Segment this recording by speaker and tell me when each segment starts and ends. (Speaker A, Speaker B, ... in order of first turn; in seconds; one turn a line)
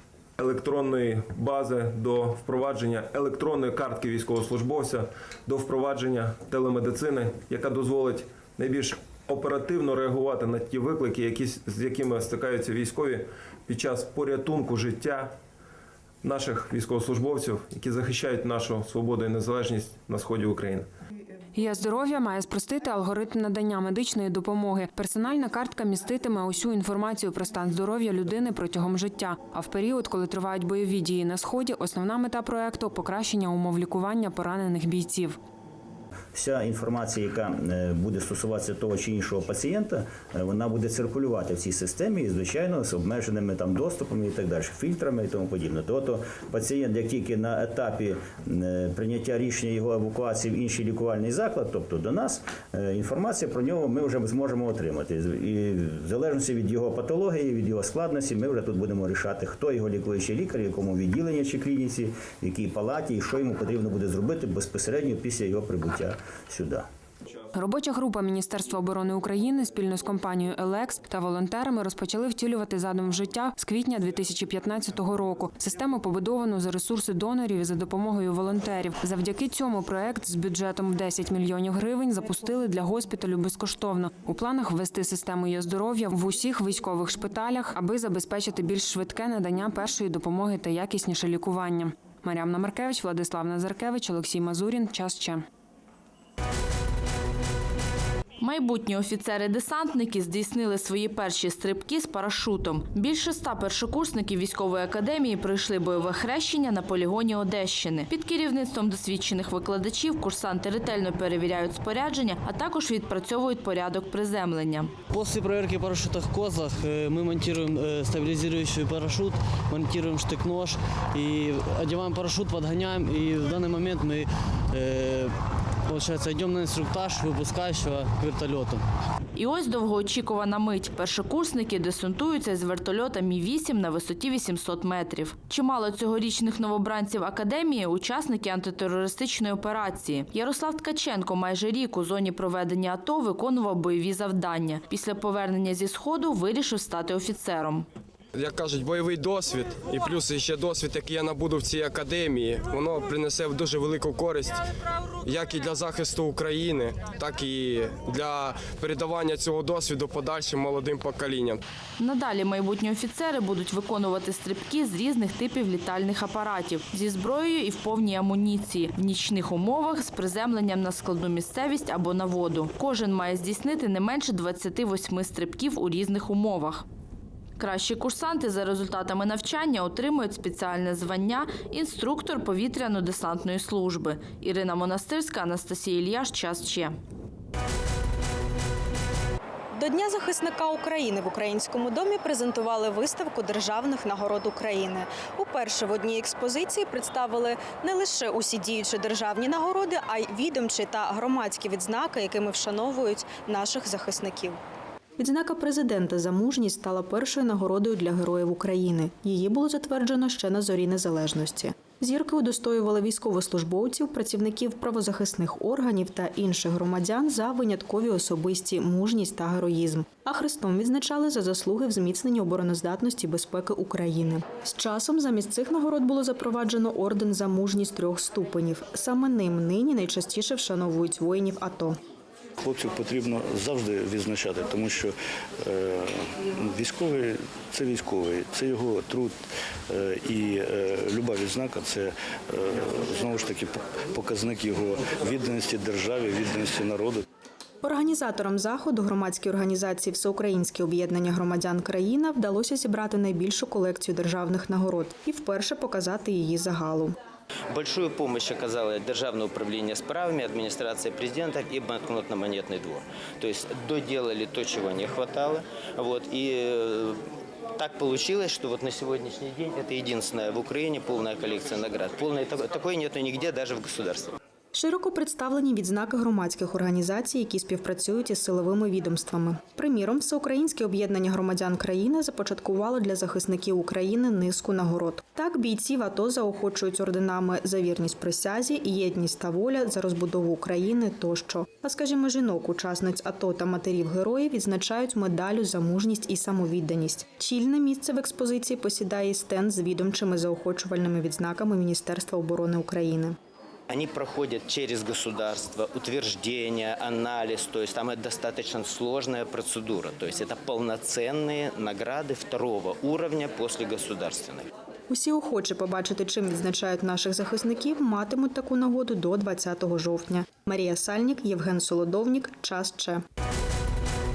Speaker A: 0.4-15.3
Speaker A: 16.2-20.9
Speaker B: 21.6-35.4
Speaker C: 36.3-66.9
Speaker B: 67.5-95.4
Speaker D: 98.4-114.9
Speaker E: 115.1-125.3
Speaker E: 125.9-128.8
Speaker D: 129.3-147.9
Speaker F: 148.3-154.6
Speaker F: 155.2-161.6
Speaker D: 162.0-176.8
Speaker D: 177.6-186.9
Speaker G: 189.7-204.6
Speaker G: 205.2-232.0
Speaker H: 232.6-239.4
Speaker H: 239.9-247.2
Speaker G: 247.8-257.2
Speaker I: 257.7-267.2
Speaker I: 267.8-274.3
Speaker G: 274.7-303.4
Speaker I: 303.9-314.7
Speaker G: 315.1-323.2